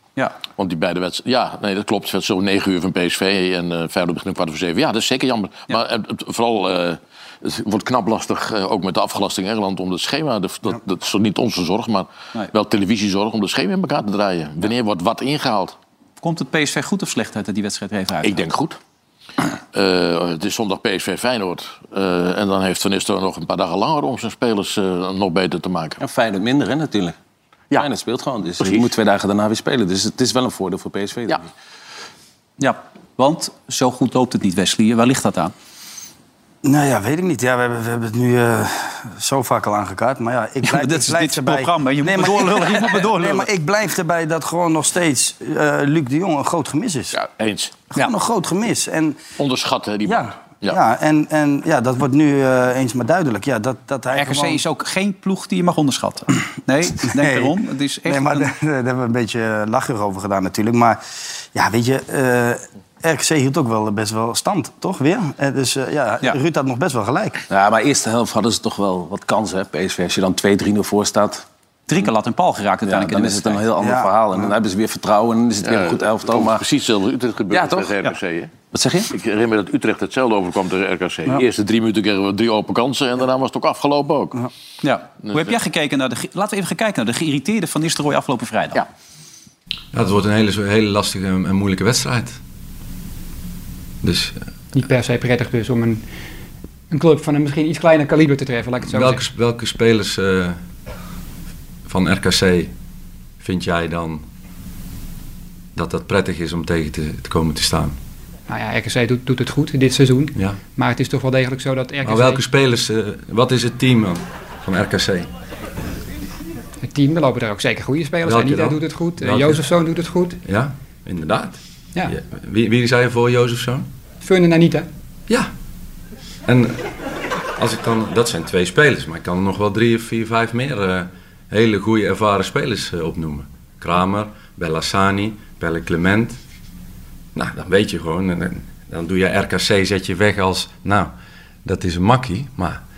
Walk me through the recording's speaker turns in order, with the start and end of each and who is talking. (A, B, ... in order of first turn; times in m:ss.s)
0:00.6-0:15.8 A
0:16.2-0:18.4 B
0:18.2-0:18.8 A
0:19.7-0:26.0 A
0:26.0-0:27.2 C
0:27.7-0:31.5 C
0:28.6-0:28.9 A
0:32.6-0:35.5 B
0:36.6-0:47.2 D
0:40.6-0:43.5 B
0:47.1-0:47.8 A
0:47.9-0:49.2 D
0:49.4-0:50.8 A
0:50.1-0:54.6 D
0:54.1-0:58.5 B
0:57.1-1:01.0 D
1:01.5-1:07.4 D
1:07.5-1:11.4 C
1:11.9-1:13.6 B
1:12.8-1:16.6 C
1:13.8-1:14.5 D
1:15.6-1:18.5 A
1:17.5-1:17.9 C
1:18.7-1:19.1 C
1:19.1-1:24.4 A
1:24.8-1:28.8 B
1:25.2-1:25.6 A
1:29.9-1:32.4 E
1:34.0-1:34.4 E
1:34.7-1:36.0 F
1:36.9-1:39.2 F
1:38.8-1:40.6 E
1:41.8-1:42.7 E
1:43.4-1:44.2 E
1:45.8-1:47.9 E
1:48.5-1:52.4 F
1:52.0-1:55.3 E
1:56.8-2:00.4 F
1:58.2-1:59.7 E
2:00.4-2:03.9 E
2:04.2-2:04.9 F
2:06.5-2:06.9 E
2:07.6-2:16.4 E
2:17.3-2:21.1 E
2:21.6-2:22.8 E